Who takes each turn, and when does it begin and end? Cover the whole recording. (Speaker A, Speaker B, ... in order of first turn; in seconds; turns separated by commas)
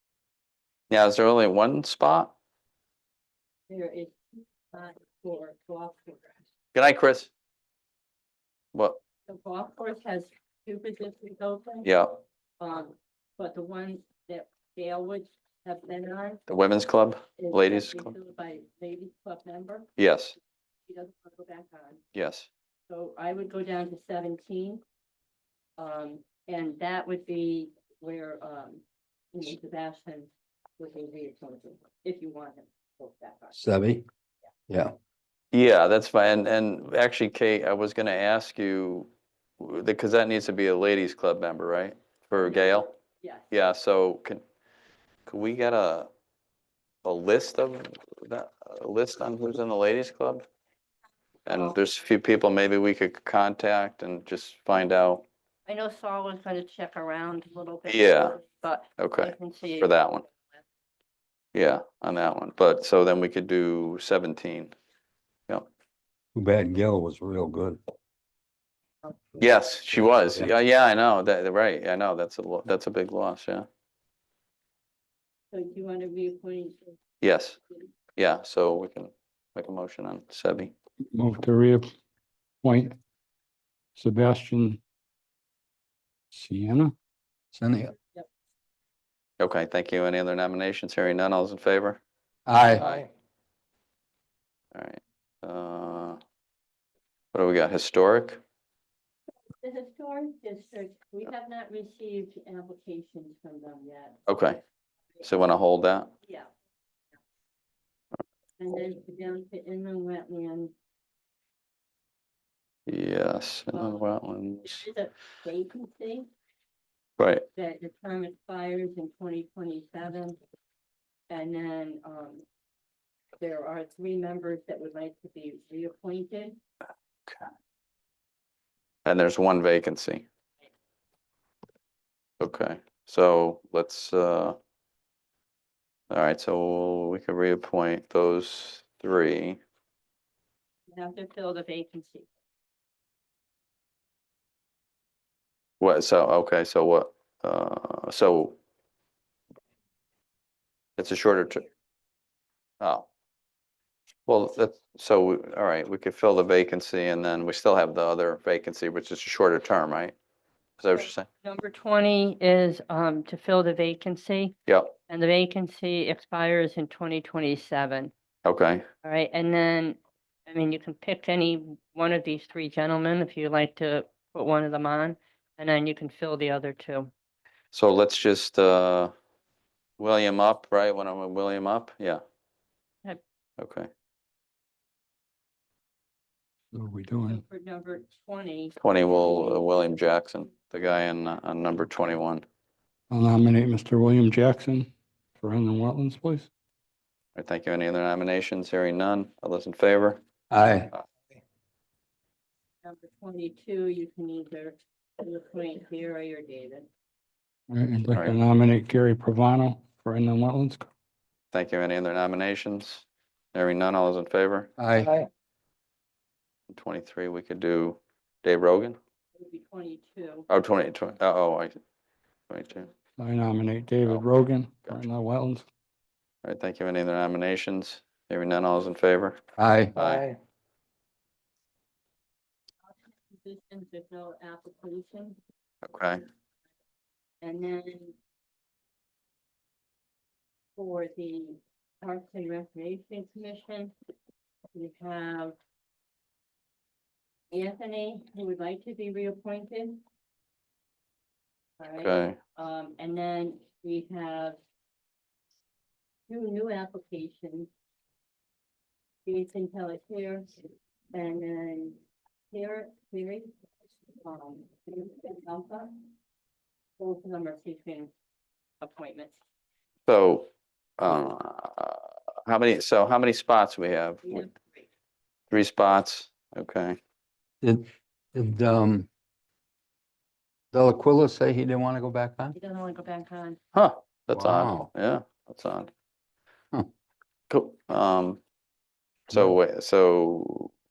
Speaker A: 0.9-2.3, Speaker B: 3.7-6.3, Speaker A: 6.7-7.3, Speaker B: 9.3-11.9, Speaker A: 11.8-12.2, Speaker B: 12.6-16.4, Speaker A: 16.5-18.1, Speaker B: 17.4-19.9, Speaker A: 20.0-20.4, Speaker B: 20.9-22.0, Speaker A: 22.1-22.5, Speaker B: 22.9-24.8, Speaker B: 25.8-33.6, Speaker C: 33.5-34.0, Speaker C: 34.7-34.9, Speaker A: 35.5-39.1, Speaker A: 39.6-43.0, Speaker B: 42.4-43.5, Speaker A: 43.5-44.4, Speaker A: 45.3-46.1, Speaker A: 47.0-50.4, Speaker A: 51.5-55.2, Speaker B: 55.6-60.5, Speaker A: 57.9-58.4, Speaker A: 59.0-60.2, Speaker A: 61.5-64.7, Speaker C: 66.3-67.8, Speaker A: 69.4-73.7, Speaker B: 75.5-77.0, Speaker A: 77.2-77.6, Speaker A: 78.2-80.7, Speaker D: 81.1-81.9, Speaker D: 82.6-83.0, Speaker D: 84.0-84.8, Speaker D: 86.3-86.9, Speaker C: 87.5-87.9, Speaker A: 89.4-92.0, Speaker C: 92.5-92.9, Speaker A: 92.8-93.1, Speaker A: 94.7-96.2, Speaker A: 97.3-98.4, Speaker B: 99.6-104.2, Speaker A: 104.3-104.6, Speaker A: 105.2-106.1, Speaker B: 106.2-106.5, Speaker B: 108.6-110.7, Speaker A: 112.9-114.8, Speaker B: 113.7-114.0, Speaker B: 114.6-116.3, Speaker A: 117.2-117.5, Speaker B: 117.5-120.4, Speaker B: 121.3-122.4, Speaker B: 123.4-126.6, Speaker A: 129.0-130.2, Speaker A: 132.4-134.6, Speaker A: 136.1-139.6, Speaker B: 140.9-142.3, Speaker A: 145.8-148.6, Speaker A: 151.0-151.6, Speaker A: 152.8-153.1, Speaker A: 154.3-160.1, Speaker A: 160.8-161.2, Speaker B: 160.9-164.5, Speaker A: 164.7-164.9, Speaker B: 165.1-168.1, Speaker A: 168.4-168.8, Speaker B: 169.0-177.1, Speaker A: 177.7-179.1, Speaker A: 180.0-182.2, Speaker A: 183.6-183.9, Speaker D: 186.7-187.4, Speaker B: 187.2-189.7, Speaker A: 188.8-192.4, Speaker D: 193.1-196.5, Speaker A: 197.3-200.2, Speaker C: 200.5-200.9, Speaker B: 202.8-206.9, Speaker D: 207.7-210.9, Speaker A: 211.5-214.7, Speaker C: 214.8-215.2, Speaker A: 216.7-219.0, Speaker B: 219.3-220.5, Speaker A: 220.5-221.7, Speaker A: 222.5-222.9, Speaker D: 223.2-225.7, Speaker A: 226.4-229.4, Speaker C: 229.6-229.9, Speaker A: 229.9-230.3, Speaker B: 232.8-235.4, Speaker A: 235.8-236.2, Speaker B: 237.4-238.1, Speaker B: 240.8-243.9, Speaker B: 244.7-245.6, Speaker B: 247.5-250.0, Speaker B: 251.8-254.6, Speaker A: 252.0-252.4, Speaker B: 256.3-257.7, Speaker B: 259.2-260.5, Speaker B: 261.1-262.0, Speaker B: 262.5-263.5, Speaker B: 264.2-266.1, Speaker B: 267.0-268.1, Speaker B: 268.8-269.4, Speaker A: 270.1-274.4, Speaker B: 274.2-274.9, Speaker A: 275.5-277.0, Speaker C: 277.6-279.1, Speaker C: 280.7-282.5, Speaker B: 282.5-283.6, Speaker A: 283.7-285.9, Speaker C: 284.3-284.9, Speaker A: 287.5-288.4, Speaker A: 289.3-290.7